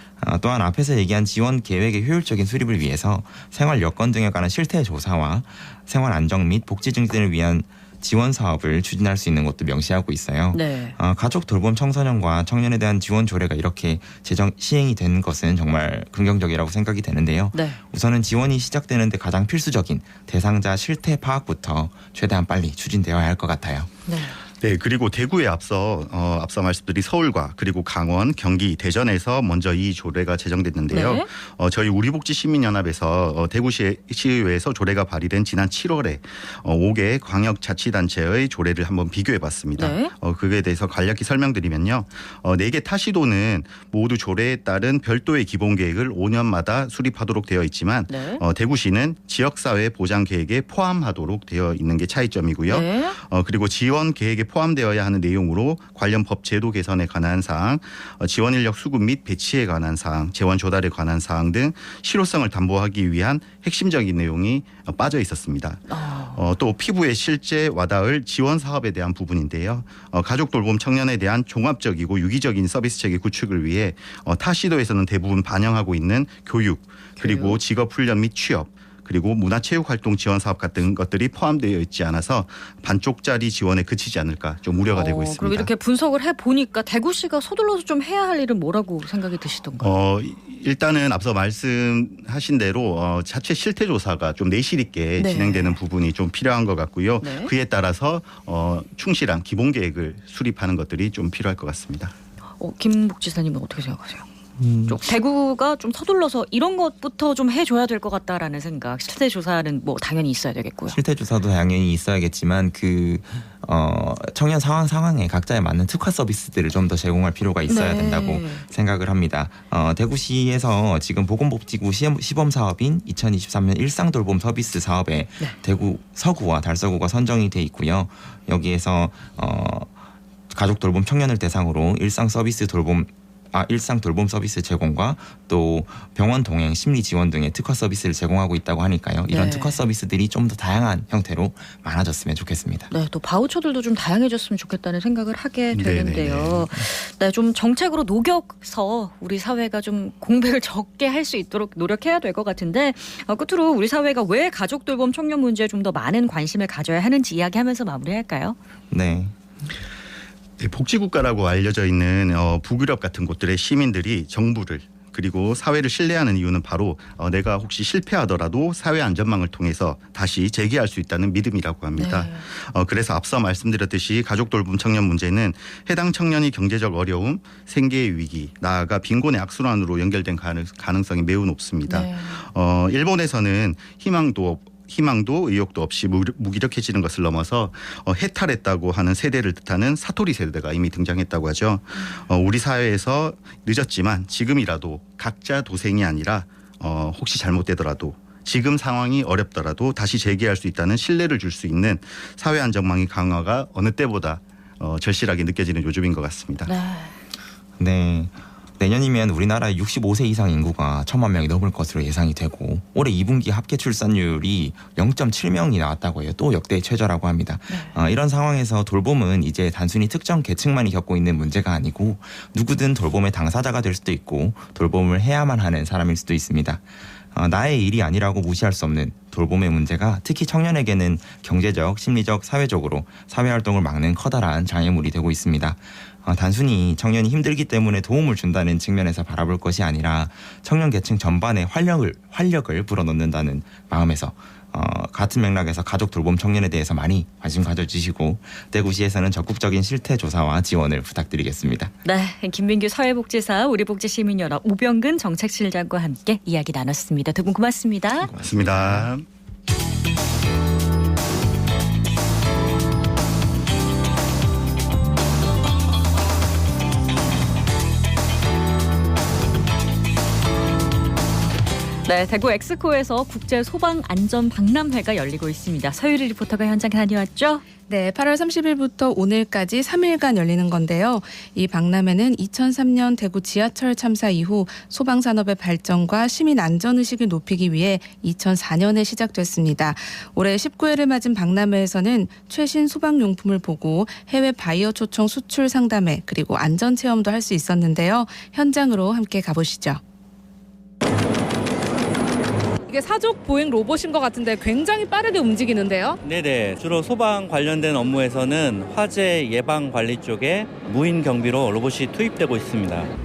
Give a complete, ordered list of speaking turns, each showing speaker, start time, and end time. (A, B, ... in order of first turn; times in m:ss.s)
0:00.2-0:23.9 A
0:10.5-0:11.0 B
0:17.5-0:17.8 B
0:24.1-0:24.4 B
0:24.6-1:25.7 C
0:30.9-0:31.3 B
0:39.8-0:40.1 B
0:48.1-0:48.4 B
0:52.7-0:53.2 B
1:05.9-1:06.4 B
1:17.2-1:17.6 B
1:24.9-1:29.9 B
1:29.8-1:42.1 C
1:35.2-1:35.8 B
1:37.2-1:37.5 B
1:42.6-1:44.3 B
1:44.6-1:45.0 A
1:44.8-1:51.0 B
1:50.9-2:09.9 A
1:57.7-1:58.6 B
2:10.5-2:22.9 A
2:19.3-2:19.8 B
2:22.9-2:38.6 B
2:25.7-2:26.9 C
2:38.9-2:39.3 A
2:40.6-3:26.7 C
2:51.9-2:52.5 B
3:01.9-3:02.4 B
3:11.9-3:12.2 B
3:26.6-3:27.1 B
3:27.8-4:11.9 A
3:37.7-3:37.9 B
4:12.0-4:18.3 B
4:18.2-4:19.2 C
4:18.4-4:19.1 A
4:32.0-4:37.6 B
4:37.9-5:00.0 D
5:02.9-5:06.2 E
5:06.2-5:13.1 F